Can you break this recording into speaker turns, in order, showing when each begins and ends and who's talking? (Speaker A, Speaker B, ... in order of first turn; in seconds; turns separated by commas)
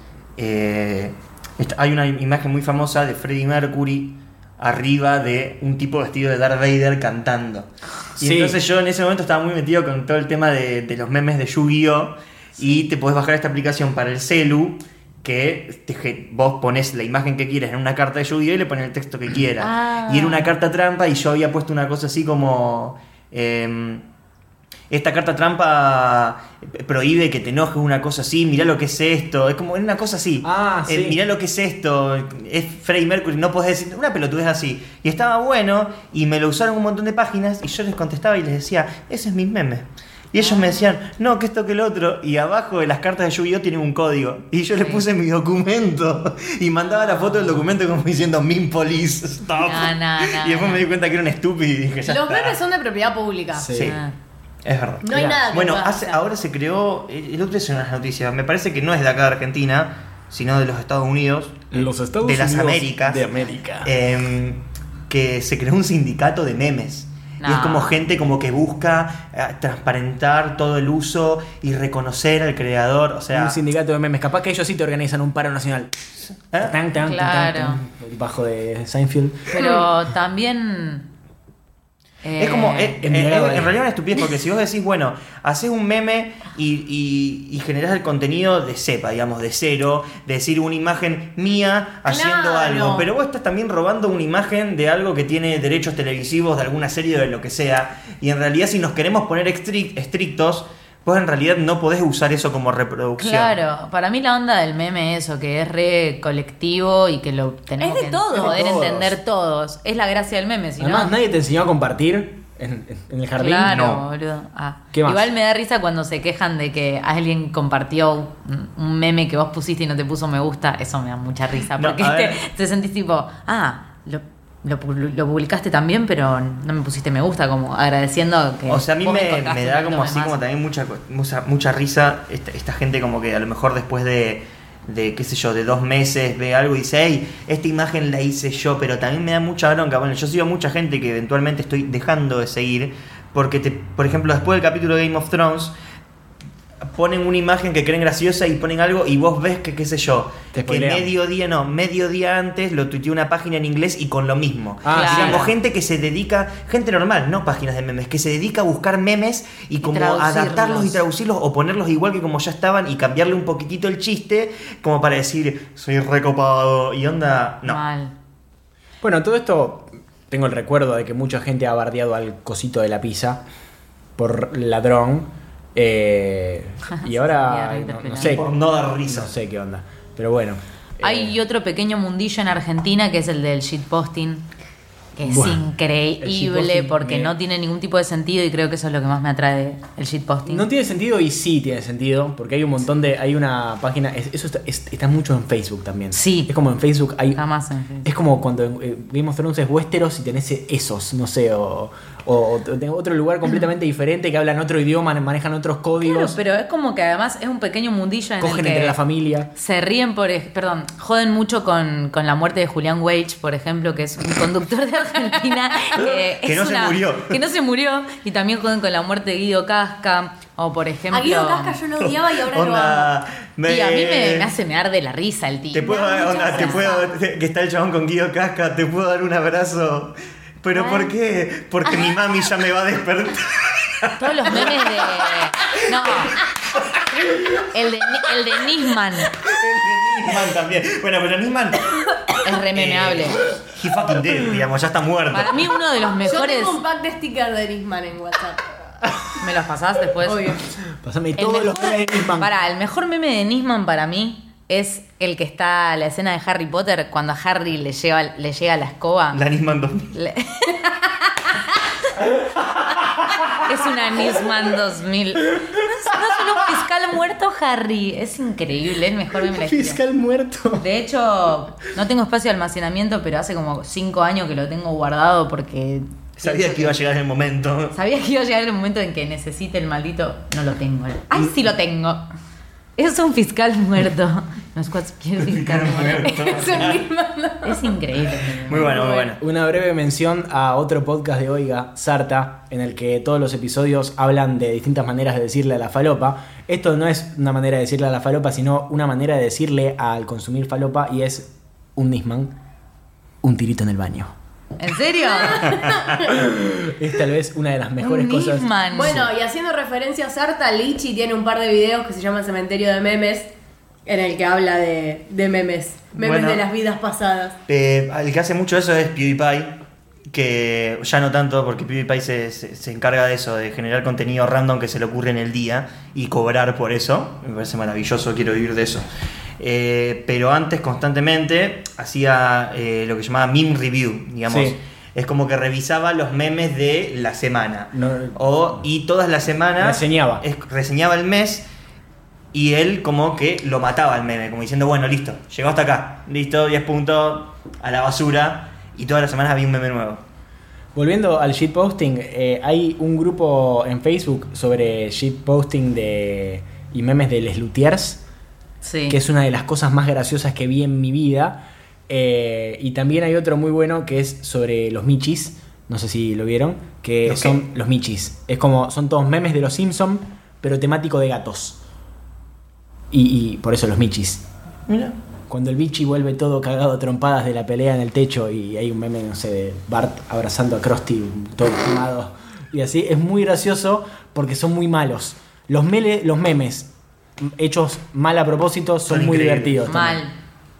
Speaker A: 0.4-24.0, Speaker B: 8.2-8.6, Speaker C: 19.6-20.5, Speaker A: 24.9-52.6, Speaker B: 30.4-31.2, Speaker C: 40.4-40.8, Speaker C: 44.8-45.0, Speaker C: 46.9-47.6, Speaker C: 49.5-50.8, Speaker D: 52.1-53.7, Speaker B: 53.5-54.0, Speaker A: 53.7-54.0, Speaker C: 53.8-54.1, Speaker A: 54.6-63.3, Speaker D: 55.0-56.2, Speaker B: 55.1-55.4, Speaker B: 61.7-63.9, Speaker A: 63.8-73.6, Speaker C: 67.4-68.0, Speaker B: 73.3-76.0, Speaker A: 76.5-76.8, Speaker B: 76.6-79.5, Speaker C: 77.0-77.8, Speaker C: 79.5-81.1, Speaker D: 79.6-79.8, Speaker C: 82.2-83.0, Speaker A: 82.4-103.5, Speaker B: 83.0-83.8, Speaker D: 92.1-93.1, Speaker C: 103.2-111.1, Speaker D: 107.8-108.6, Speaker B: 108.3-109.2, Speaker B: 110.8-113.8, Speaker C: 113.4-130.3, Speaker A: 113.7-114.0, Speaker B: 114.9-115.3, Speaker A: 121.8-122.4, Speaker A: 128.7-145.7, Speaker A: 146.8-167.8, Speaker B: 150.5-151.1, Speaker B: 154.8-155.5, Speaker C: 154.9-155.5, Speaker C: 159.8-161.0, Speaker C: 167.6-168.1, Speaker B: 169.0-173.4, Speaker B: 174.2-178.4, Speaker C: 176.9-178.4, Speaker A: 178.2-179.3, Speaker B: 179.0-181.3, Speaker C: 181.0-184.4, Speaker C: 185.2-190.7, Speaker B: 185.2-185.6, Speaker B: 186.2-187.3, Speaker B: 190.4-197.4, Speaker C: 196.1-196.5, Speaker C: 197.3-198.1, Speaker B: 198.0-206.4, Speaker C: 206.0-209.0, Speaker B: 208.4-209.5, Speaker C: 209.5-221.8, Speaker A: 215.9-217.4, Speaker D: 221.1-223.1, Speaker A: 222.0-224.5, Speaker C: 223.6-226.9, Speaker A: 225.7-235.2, Speaker D: 225.8-227.1, Speaker C: 230.7-231.1, Speaker C: 234.2-236.4, Speaker A: 235.7-237.6, Speaker C: 237.6-239.3, Speaker A: 239.3-241.9, Speaker C: 242.4-243.4, Speaker A: 242.7-245.6, Speaker C: 245.3-246.8, Speaker D: 246.2-248.6, Speaker C: 249.4-250.5, Speaker D: 250.2-250.6, Speaker B: 250.9-252.5, Speaker C: 251.4-259.4, Speaker A: 259.3-260.1, Speaker C: 260.1-261.6, Speaker B: 262.4-263.5, Speaker C: 263.5-270.0, Speaker B: 269.5-270.8, Speaker C: 270.8-276.9, Speaker A: 276.4-277.9, Speaker C: 277.9-282.2, Speaker C: 283.0-286.8, Speaker A: 285.4-287.0, Speaker D: 286.2-287.9, Speaker C: 287.6-289.0, Speaker A: 288.6-289.4, Speaker D: 288.8-289.3, Speaker B: 289.4-302.5, Speaker B: 303.4-304.3, Speaker C: 304.8-305.7, Speaker D: 305.2-306.3, Speaker B: 306.2-309.3, Speaker C: 308.0-309.2, Speaker D: 308.9-313.5, Speaker D: 314.1-317.6, Speaker A: 316.2-316.6, Speaker A: 317.7-319.8, Speaker A: 320.3-329.1, Speaker A: 329.6-341.6, Speaker B: 334.5-334.8, Speaker B: 337.9-338.4, Speaker B: 339.8-340.4, Speaker A: 342.5-350.2, Speaker B: 350.9-358.2, Speaker C: 358.8-359.2, Speaker B: 359.1-371.8, Speaker A: 367.2-367.6, Speaker B: 373.1-374.4, Speaker A: 374.9-375.1, Speaker B: 375.5-386.9, Speaker B: 387.4-390.2, Speaker A: 389.1-389.8, Speaker C: 389.9-390.3